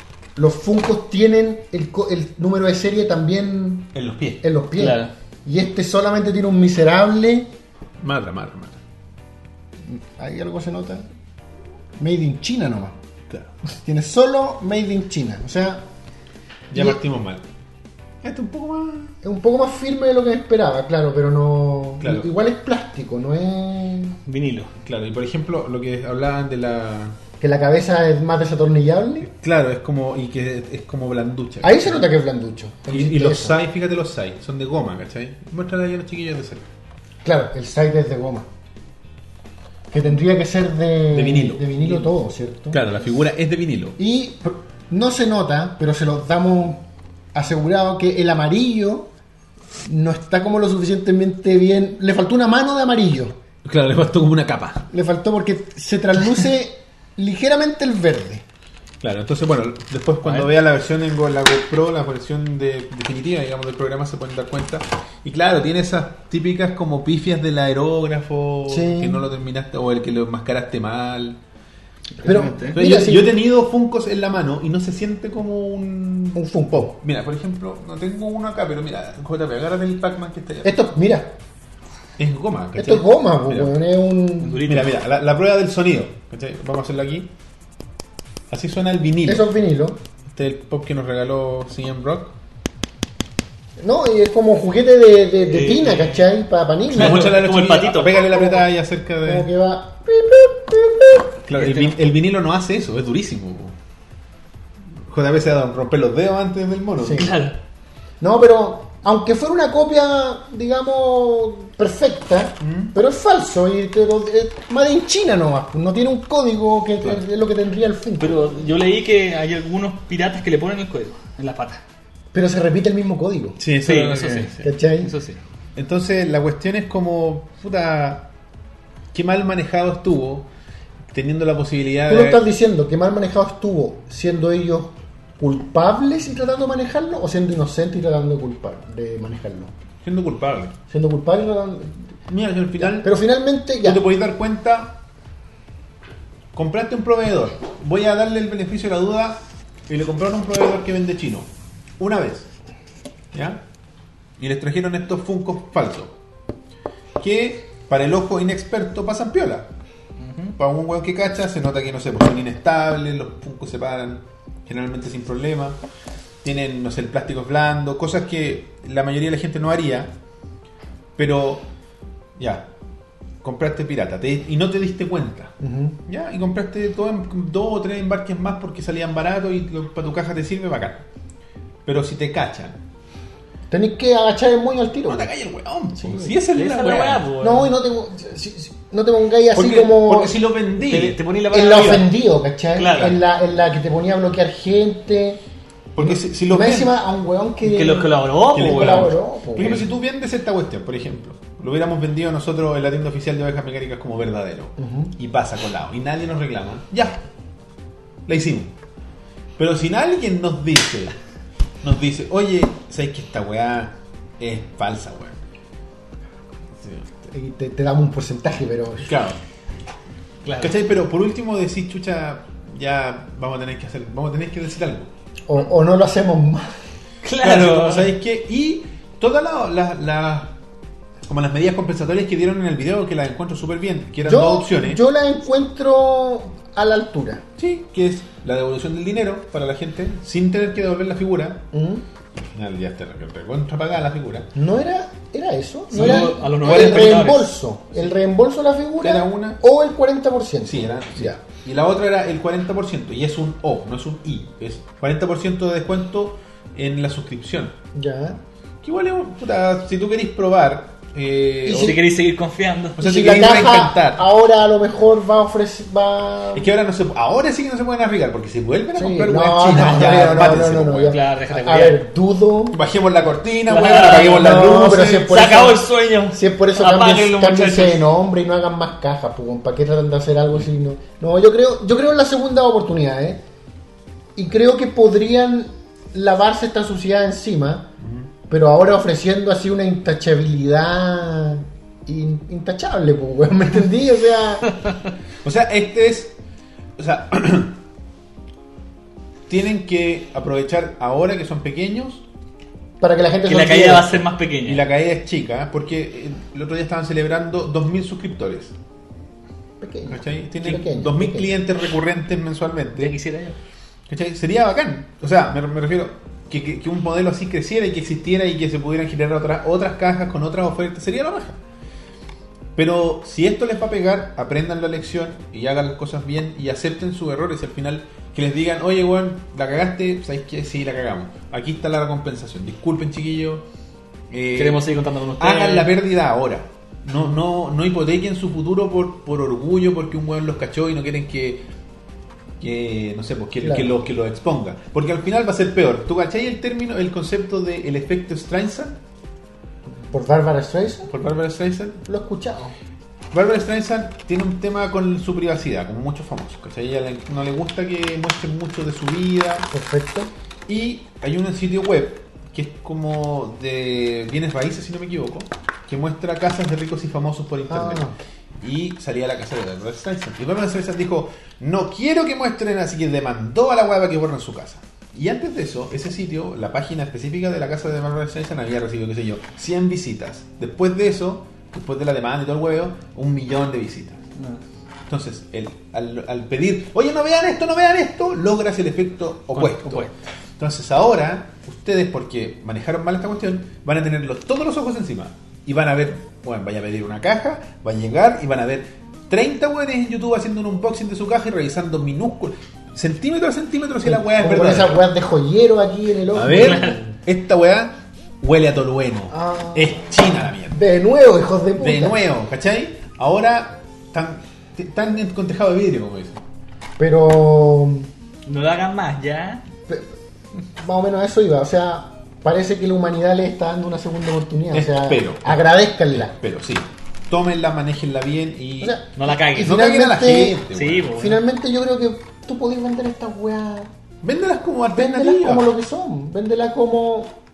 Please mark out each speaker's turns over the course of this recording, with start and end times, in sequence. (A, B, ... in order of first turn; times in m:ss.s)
0:00.4-0:03.9 A
0:03.9-0:04.4 B
0:04.4-0:07.5 A
0:04.8-0:05.1 C
0:08.0-0:08.8 B
0:09.8-0:11.0 A
0:12.0-0:13.0 A
0:13.7-0:15.8 A
0:16.7-0:17.4 B
0:18.2-0:19.2 B
0:19.2-0:24.2 A
0:22.0-0:22.3 B
0:24.2-0:24.7 C
0:24.8-0:27.2 B
0:27.4-0:29.3 A
0:29.2-0:32.1 B
0:31.6-0:33.6 A
0:32.9-0:36.6 B
0:37.2-0:38.5 A
0:39.9-0:42.8 A
0:41.1-0:42.0 B
0:42.7-0:44.0 B
0:44.0-0:49.1 A
0:49.8-0:53.4 A
0:53.6-0:54.9 B
0:54.9-0:58.4 A
0:59.0-1:11.4 B
1:08.7-1:09.2 A
1:12.2-1:12.8 C
1:12.2-1:13.4 A
1:12.7-1:20.7 B
1:16.3-1:16.9 A
1:20.6-1:21.4 A
1:22.2-1:23.7 B
1:22.8-1:24.7 A
1:24.4-1:24.9 C
1:24.6-1:27.3 B
1:28.5-1:29.4 B
1:29.2-1:30.0 A
1:30.2-1:32.4 B
1:33.8-1:37.4 A
1:35.5-1:36.3 C
1:36.9-1:38.3 C
1:36.9-1:39.5 B
1:38.2-1:38.6 A
1:39.2-1:41.4 A
1:41.4-1:43.8 B
1:41.5-1:41.9 C
1:45.0-1:47.3 B
1:47.0-1:47.3 A
1:47.1-1:47.6 C
1:48.2-1:58.6 A
1:52.6-1:52.9 B
1:58.2-2:01.8 C
2:02.3-2:03.6 A
2:03.6-2:04.7 B
2:03.8-2:05.4 C
2:04.6-2:05.1 A
2:05.8-2:08.3 B
2:09.1-2:10.5 B
2:11.1-2:12.4 B
2:12.1-2:19.7 A
2:20.0-2:20.8 B
2:20.9-2:22.1 A
2:22.3-2:23.1 B
2:22.8-2:24.0 A
2:23.8-2:25.0 B
2:26.5-2:32.5 B
2:33.3-2:33.6 B
2:34.4-2:36.1 B
2:37.2-2:39.7 B
2:40.2-2:40.5 C
2:40.6-2:45.8 B
2:46.4-2:50.1 B
2:51.2-2:51.6 B
2:52.4-2:52.7 B
2:53.4-2:55.5 B
2:55.6-2:56.0 A
2:56.0-3:01.0 B
3:01.8-3:02.8 B
3:03.7-3:05.3 A
3:05.1-3:07.3 B
3:06.0-3:06.4 A
3:06.5-3:07.7 C
3:07.4-3:10.4 A
3:09.5-3:11.2 B
3:10.8-3:12.1 C
3:11.5-3:15.4 A
3:12.7-3:13.2 C
3:15.9-3:16.9 B
3:16.0-3:19.9 A
3:17.6-3:19.1 C
3:18.5-3:27.2 B
3:24.8-3:25.1 A
3:28.2-3:28.7 B
3:29.6-3:31.1 B
3:31.8-3:35.4 B
3:36.8-3:37.1 B
3:37.3-3:39.2 A
3:39.0-3:39.4 B
3:40.4-3:40.8 C
3:40.6-3:45.1 B
3:45.5-3:46.7 A
3:47.2-3:48.1 C
3:47.4-3:50.6 B
3:51.2-3:55.0 B
3:54.2-3:57.4 A
3:57.6-4:01.6 B
4:01.7-4:02.0 A
4:02.5-4:04.5 B
4:04.5-4:11.4 A
4:05.9-4:07.5 C
4:05.9-4:07.4 B
4:09.0-4:09.6 B
4:10.6-4:17.8 B
4:17.9-4:18.4 A
4:18.8-4:22.0 B
4:21.6-4:22.0 A
4:21.7-4:23.0 C
4:23.0-4:24.2 B
4:23.0-4:26.7 A
4:26.5-4:31.2 B
4:28.9-4:32.8 A
4:30.0-4:32.0 C
4:32.7-4:35.4 B
4:33.7-4:38.0 C
4:34.1-4:43.4 A
4:44.4-4:47.9 A
4:48.0-4:48.3 B
4:48.5-4:54.7 A
4:55.4-4:56.4 B
4:57.0-4:57.8 B
4:59.5-5:02.2 B
5:03.0-5:04.2 A
5:03.5-5:04.8 C
5:04.6-5:08.7 B
5:09.8-5:11.5 A
5:10.1-5:13.2 B
5:13.0-5:13.6 C
5:14.1-5:21.6 B
5:22.8-5:33.6 B
5:34.3-5:41.6 B
5:34.6-5:35.9 C
5:42.6-5:49.0 B
5:43.6-5:44.0 A
5:50.0-5:51.1 A
5:51.1-5:52.0 B
5:52.0-5:52.8 A
5:53.3-5:59.7 B
5:59.7-6:00.3 A
6:00.7-6:08.0 B
6:07.7-6:08.2 A
6:08.6-6:24.2 B
6:24.4-6:24.6 C
6:25.1-6:45.0 B
6:29.5-6:30.2 C
6:44.0-6:47.1 A
6:46.3-6:50.8 B
6:46.4-6:47.0 C
6:49.3-6:52.2 A
6:51.8-6:56.4 B
6:57.0-6:58.1 A
6:58.4-6:59.6 C
7:00.6-7:06.3 A
7:04.7-7:05.6 B
7:06.1-7:09.0 B
7:08.8-7:10.6 A
7:09.2-7:09.8 C
7:09.6-7:11.2 B
7:10.7-7:11.4 C
7:11.1-7:13.9 A
7:14.2-7:15.7 B
7:14.9-7:17.4 A